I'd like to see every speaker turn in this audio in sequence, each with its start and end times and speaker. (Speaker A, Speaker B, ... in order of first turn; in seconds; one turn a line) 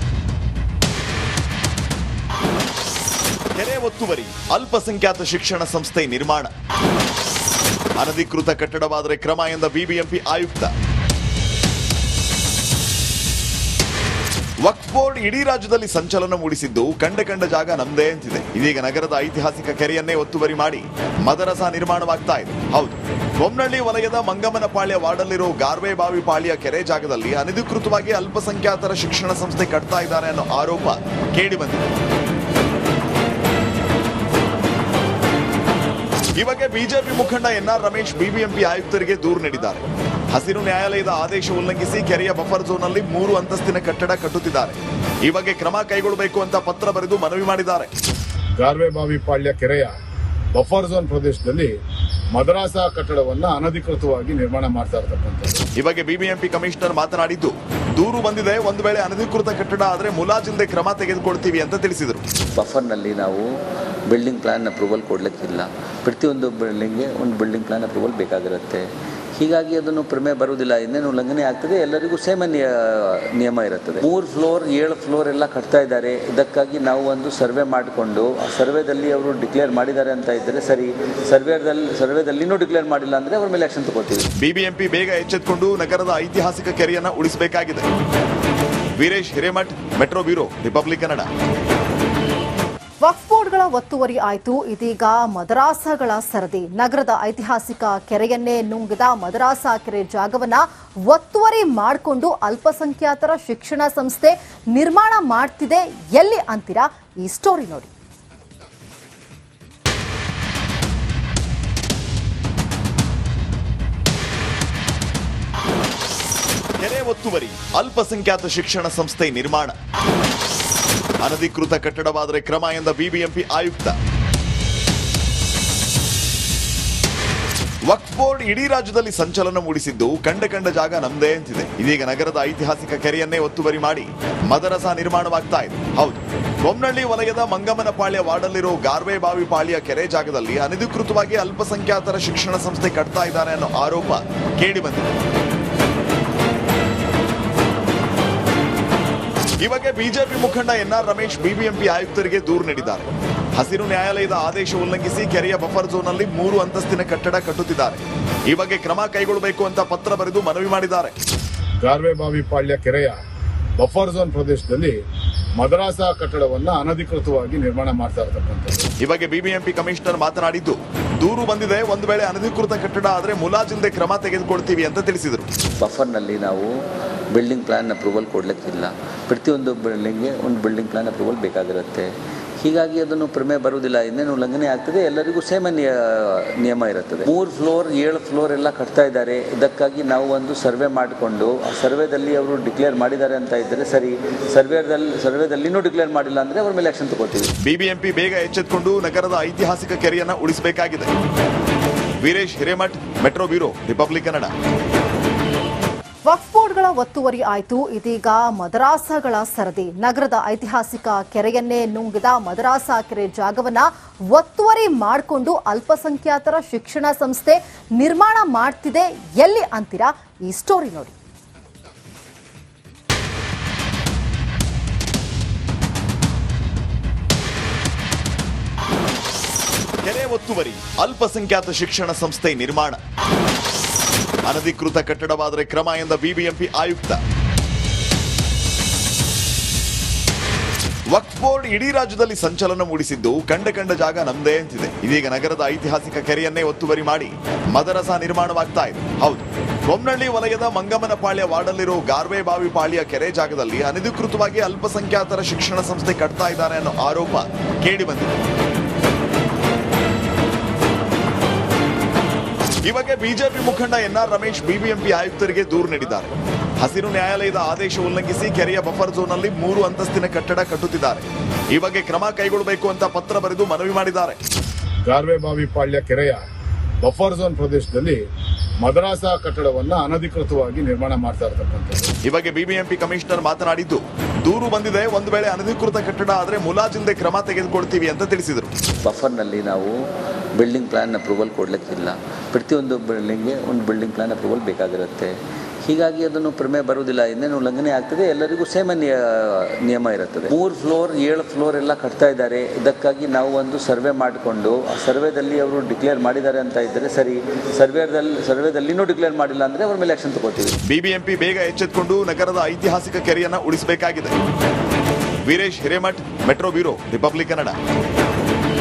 Speaker A: 3.6-6.5
Speaker A: 8.0-10.7
Speaker A: 14.7-31.9
Speaker A: 36.4-47.9
Speaker B: 48.6-49.9
Speaker B: 50.5-51.7
Speaker B: 52.3-55.6
Speaker A: 55.8-62.2
Speaker C: 62.6-63.5
Speaker C: 64.1-68.9
Speaker C: 69.4-84.3
Speaker A: 84.4-87.9
Speaker A: 89.0-91.3
Speaker D: 93.0-107.9
Speaker A: 116.8-119.8
Speaker A: 121.2-124.0
Speaker A: 127.9-145.1
Speaker A: 149.6-161.2
Speaker B: 161.8-163.2
Speaker B: 163.8-164.9
Speaker B: 165.6-168.9
Speaker A: 169.0-175.5
Speaker C: 175.8-176.8
Speaker C: 177.3-182.1
Speaker C: 182.6-197.5
Speaker A: 197.6-201.1
Speaker A: 202.2-204.5
Speaker D: 206.3-221.1
Speaker A: 230.0-233.0
Speaker A: 234.5-237.2
Speaker A: 241.1-258.3
Speaker A: 262.9-274.4
Speaker B: 275.1-276.4
Speaker B: 277.0-278.2
Speaker B: 278.8-282.1
Speaker A: 282.3-288.7
Speaker C: 289.0-290.0
Speaker C: 290.6-295.3
Speaker C: 295.9-310.8
Speaker A: 310.9-314.3
Speaker A: 315.5-317.8